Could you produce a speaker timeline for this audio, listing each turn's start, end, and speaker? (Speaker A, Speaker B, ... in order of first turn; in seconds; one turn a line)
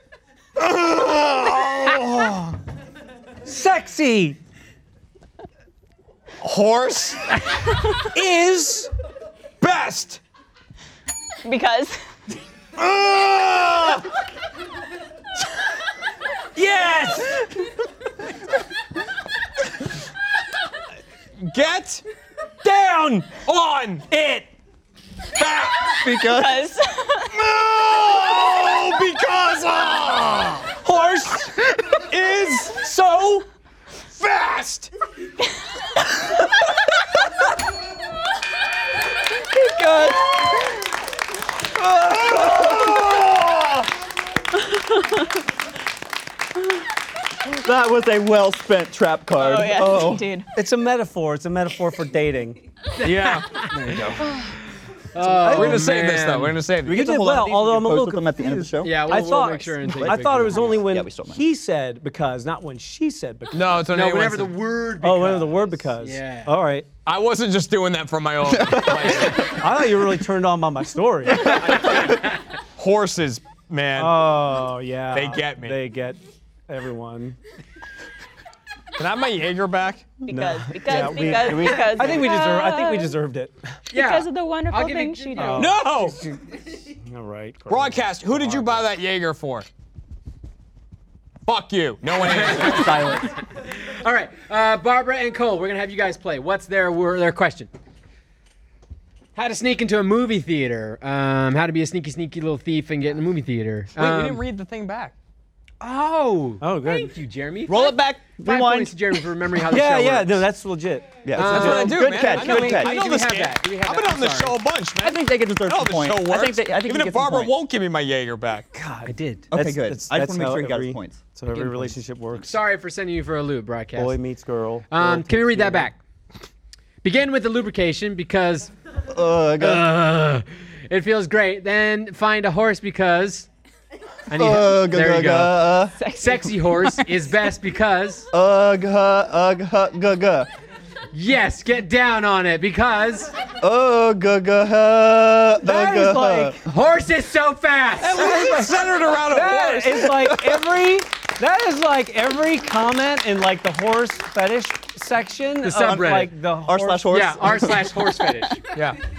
Speaker A: 0.6-2.6
Speaker B: 3.4-4.4
Speaker A: 6.4-7.4
Speaker B: 8.0-8.9
Speaker A: 9.6-10.2
Speaker C: 11.4-12.0
Speaker A: 12.8-14.1
Speaker B: 16.6-17.5
Speaker A: 21.4-22.0
Speaker B: 22.6-23.4
Speaker A: 23.4-24.1
Speaker B: 24.1-24.5
Speaker A: 25.4-26.0
Speaker D: 26.0-26.8
Speaker C: 26.3-27.3
Speaker A: 27.3-30.8
Speaker B: 30.8-31.5
Speaker A: 32.0-33.1
Speaker B: 32.7-33.4
Speaker A: 34.1-34.9
Speaker D: 39.5-40.8
Speaker A: 41.8-43.9
Speaker D: 42.1-43.1
Speaker C: 44.7-45.2
Speaker D: 47.5-50.3
Speaker C: 49.3-50.5
Speaker B: 50.5-52.6
Speaker E: 53.0-54.0
Speaker A: 53.0-54.2
Speaker B: 53.7-54.2
Speaker E: 55.1-56.6
Speaker B: 55.4-55.8
Speaker A: 55.4-57.0
Speaker D: 56.8-59.0
Speaker B: 56.9-63.7
Speaker E: 58.8-60.9
Speaker D: 60.0-61.4
Speaker A: 63.5-64.5
Speaker E: 63.9-66.5
Speaker B: 65.0-66.9
Speaker A: 67.0-69.6
Speaker D: 68.4-69.5
Speaker B: 69.4-71.9
Speaker A: 71.4-74.2
Speaker B: 74.0-77.4
Speaker A: 75.1-75.8
Speaker A: 79.0-80.1
Speaker C: 80.2-83.2
Speaker B: 80.3-83.7
Speaker D: 80.9-82.3
Speaker E: 83.9-85.8
Speaker C: 83.9-85.8
Speaker B: 85.4-88.8
Speaker A: 85.5-86.2
Speaker A: 87.7-89.7
Speaker A: 91.5-93.0
Speaker E: 92.2-97.7
Speaker E: 99.3-104.4
Speaker A: 104.0-105.1
Speaker E: 105.8-110.5
Speaker B: 106.6-107.1
Speaker D: 107.7-109.1
Speaker B: 109.6-111.2
Speaker D: 111.2-112.9
Speaker E: 111.3-114.6
Speaker A: 111.4-118.7
Speaker D: 115.0-117.5
Speaker B: 118.7-122.6
Speaker D: 119.5-121.2
Speaker E: 121.5-124.2
Speaker B: 123.9-125.9
Speaker E: 124.9-126.0
Speaker E: 127.0-128.7
Speaker D: 129.1-129.9
Speaker E: 129.6-133.5
Speaker E: 134.3-138.3
Speaker D: 134.3-135.9
Speaker C: 135.9-137.0
Speaker D: 138.3-140.5
Speaker E: 141.1-143.3
Speaker D: 143.6-146.6
Speaker B: 145.6-146.6
Speaker E: 146.6-148.4
Speaker B: 148.0-157.1
Speaker A: 148.1-150.3
Speaker E: 155.6-156.3
Speaker D: 155.8-158.0
Speaker E: 157.1-158.6
Speaker A: 158.7-159.0